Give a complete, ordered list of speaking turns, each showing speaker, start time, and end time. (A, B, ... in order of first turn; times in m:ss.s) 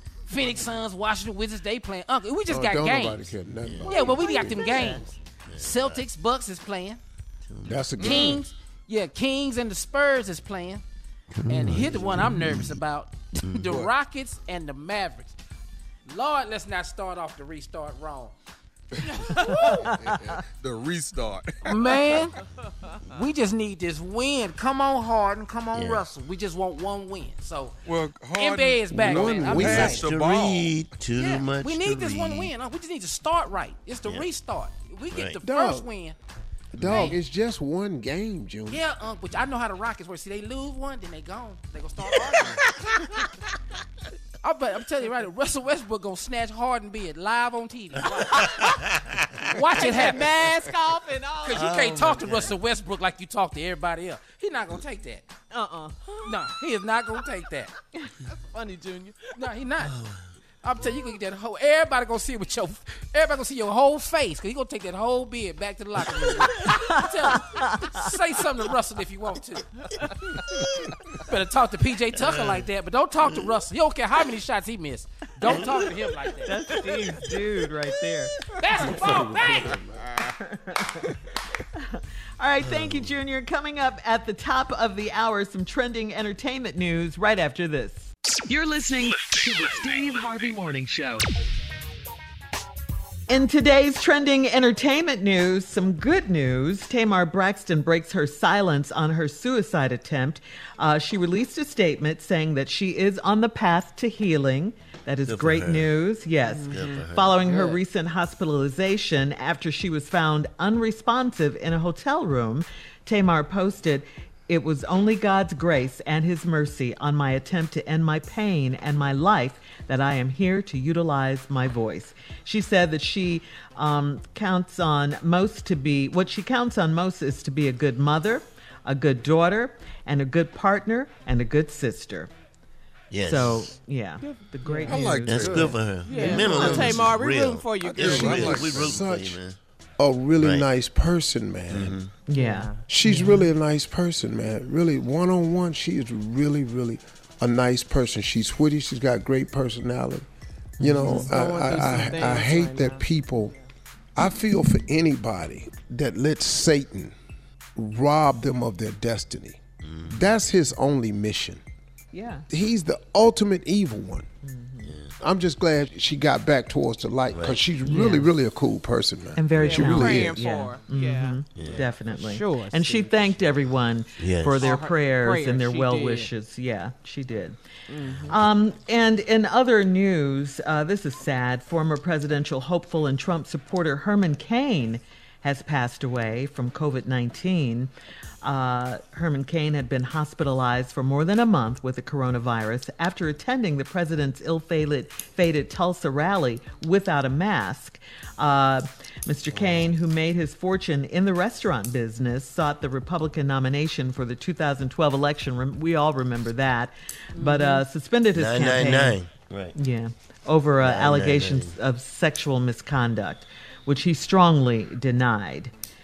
0:00.3-0:03.3 A
0:02.5-0:05.0 B
0:03.6-0:03.9 C
0:03.8-0:07.0 A
0:05.5-0:06.0 C
0:07.5-0:08.3 C
0:07.6-0:08.4 B
0:08.0-0:10.8 A
0:08.0-0:08.4 D
0:11.4-0:12.8 C
0:11.5-0:15.4 A
0:11.6-0:12.2 B
0:16.1-0:18.3 A
0:19.2-0:19.6 A
0:19.4-0:22.3 D
0:19.4-0:20.2 E
0:21.6-0:22.4 A
0:23.1-0:27.8 A
0:25.7-0:26.1 C
0:27.9-0:30.8 D
0:28.3-0:30.0 A
0:28.9-0:30.0 B
0:29.2-0:32.5 C
0:31.2-0:36.2 A
0:35.1-0:35.4 C
0:35.4-0:35.9 B
0:36.7-0:38.8 B
0:36.8-0:37.2 A
0:38.7-0:43.3 A
0:44.4-0:48.8 A
0:48.0-0:50.2 C
0:49.5-0:50.7 A
0:49.8-0:51.8 F
0:51.4-0:55.2 A
0:51.5-0:52.6 C
0:55.5-0:56.4 F
0:56.2-0:57.7 A
0:58.2-0:59.3 F
0:59.4-0:59.9 A
0:59.8-1:00.2 C
1:00.6-1:09.7 A
1:06.9-1:08.0 E
1:11.1-1:16.7 A
1:12.1-1:12.7 C
1:15.4-1:17.2 C
1:16.4-1:19.1 E
1:18.6-1:19.8 A
1:18.8-1:20.0 B
1:19.2-1:19.5 C
1:20.3-1:21.2 E
1:21.8-1:28.1 E
1:22.6-1:23.1 C
1:28.5-1:31.2 G
1:33.3-2:12.3 E
1:45.3-1:47.4 C
1:46.7-1:46.9 F
2:13.1-2:13.7 C
2:13.2-2:17.0 E
2:14.2-2:15.1 F
2:14.9-2:15.8 D
2:15.3-2:19.6 C
2:16.0-2:18.8 F
2:16.6-2:16.9 D
2:18.0-2:19.0 D
2:18.7-2:19.4 B
2:20.0-2:22.0 B
2:20.4-2:20.7 C
2:21.7-2:22.2 C
2:22.3-2:23.5 E
2:22.3-2:22.8 F
2:22.9-2:30.3 B
2:30.8-2:31.4 E
2:30.8-2:33.5 B
2:30.9-2:33.0 F
2:34.2-2:37.2 B
2:37.8-2:41.6 B
2:39.8-2:40.3 C
2:42.1-2:42.5 E
2:42.5-2:44.3 B
2:44.4-2:45.0 E
2:44.8-2:45.1 C
2:45.2-2:50.4 B
2:47.3-2:47.6 C
2:47.9-2:48.3 E
2:49.4-2:57.6 E
2:49.5-2:53.4 F
2:51.6-2:51.9 C
2:54.2-2:54.7 C
2:54.6-2:56.3 F
2:57.9-2:58.4 F
2:58.0-2:58.4 C
2:58.3-3:07.9 E
3:08.4-3:29.2 E
3:19.6-3:19.9 C
3:27.3-3:27.8 F
3:28.4-3:29.8 C
3:29.8-3:35.7 E
3:30.8-3:31.8 C